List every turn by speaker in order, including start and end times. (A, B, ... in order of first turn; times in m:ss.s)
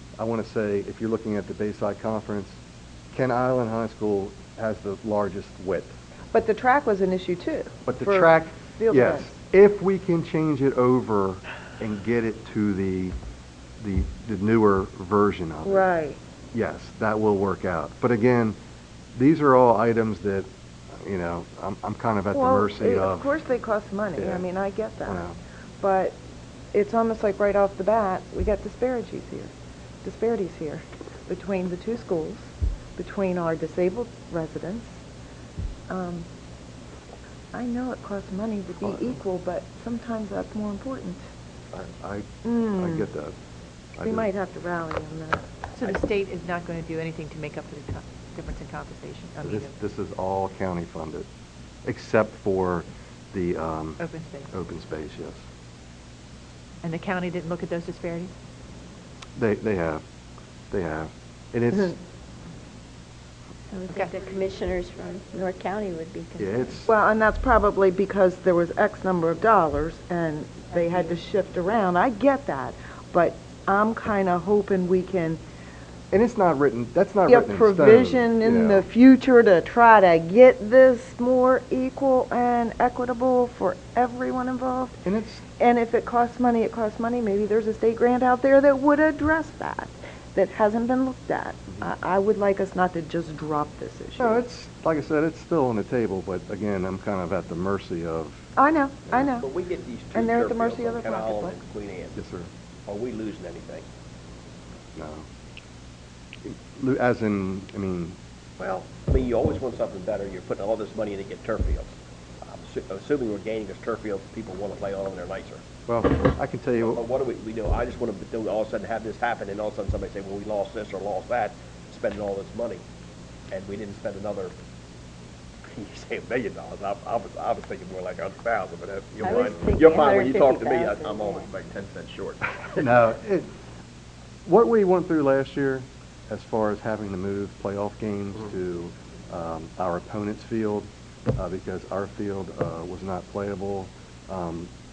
0:00.2-0:02.6 A
0:03.1-0:05.9 A
0:06.3-0:09.3 B
0:07.9-0:13.2 A
0:13.8-0:15.9 A
0:15.6-0:16.2 B
0:16.5-0:18.6 A
0:19.2-0:23.3 A
0:22.3-0:25.2 B
0:24.2-0:24.5 A
0:25.1-0:25.4 A
0:25.8-0:26.2 B
0:26.7-0:29.5 B
0:30.0-0:34.9 B
0:35.9-0:36.3 B
0:37.5-0:41.2 B
0:38.8-0:39.2 A
0:41.7-0:43.4 A
0:42.4-0:43.1 B
0:44.0-0:44.3 A
0:44.0-0:45.6 B
0:45.8-0:49.8 C
0:49.4-0:51.3 A
0:51.8-0:55.4 A
0:54.0-0:54.5 C
0:56.8-0:58.3 C
0:59.4-1:00.0 A
1:00.7-1:02.0 A
1:03.7-1:06.7 D
1:06.4-1:06.9 A
1:06.8-1:15.4 B
1:16.1-1:18.9 A
1:17.3-1:25.0 B
1:25.0-1:25.4 A
1:25.6-1:34.4 B
1:34.2-1:38.5 A
1:38.6-1:39.5 B
1:39.4-1:42.2 E
1:40.1-1:41.6 B
1:42.2-1:42.5 A
1:42.9-1:43.8 E
1:45.0-1:45.3 A
1:46.4-1:48.7 A
1:48.6-1:51.9 E
1:52.4-1:55.6 E
1:55.9-1:57.0 A
1:56.8-2:02.8 E
2:03.5-2:04.5 E
2:05.7-2:12.8 E
2:09.2-2:11.5 D
2:12.8-2:13.5 A
2:14.5-2:24.7 A